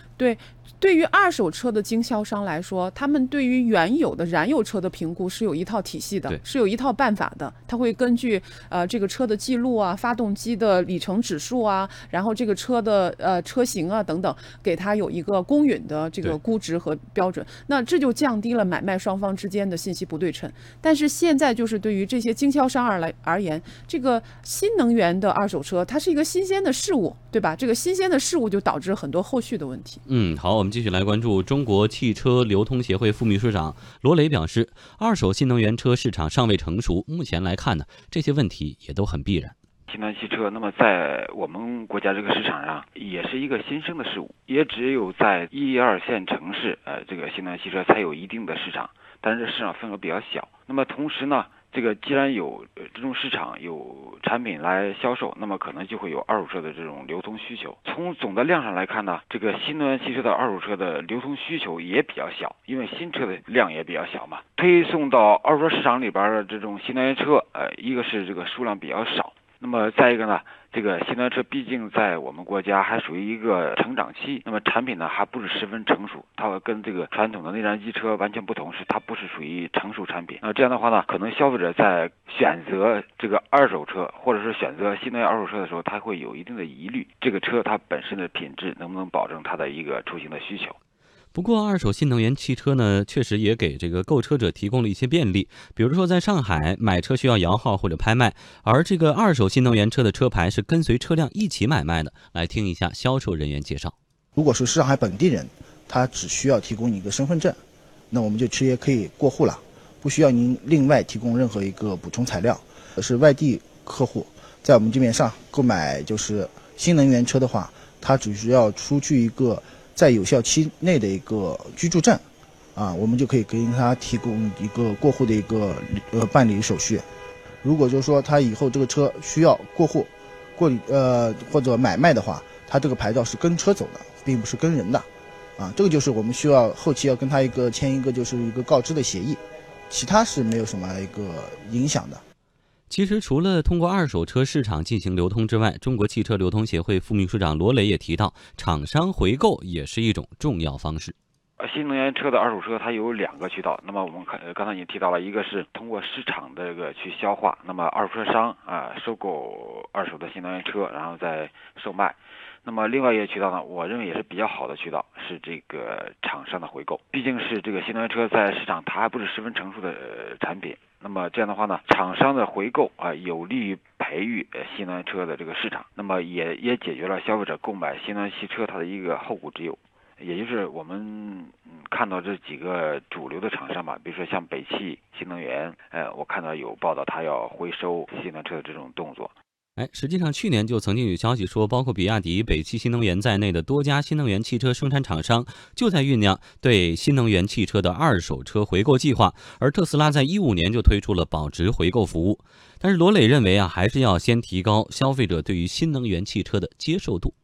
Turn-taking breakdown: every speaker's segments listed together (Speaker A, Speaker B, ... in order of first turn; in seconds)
Speaker A: 0.2-30.0
Speaker B: 30.1-39.5, 91.3-103.9, 142.9-151.1, 189.8-207.3
Speaker C: 39.9-90.8, 151.6-189.3
Speaker D: 104.3-107.6, 108.1-122.2, 122.8-127.0, 127.6-135.1, 135.6-142.2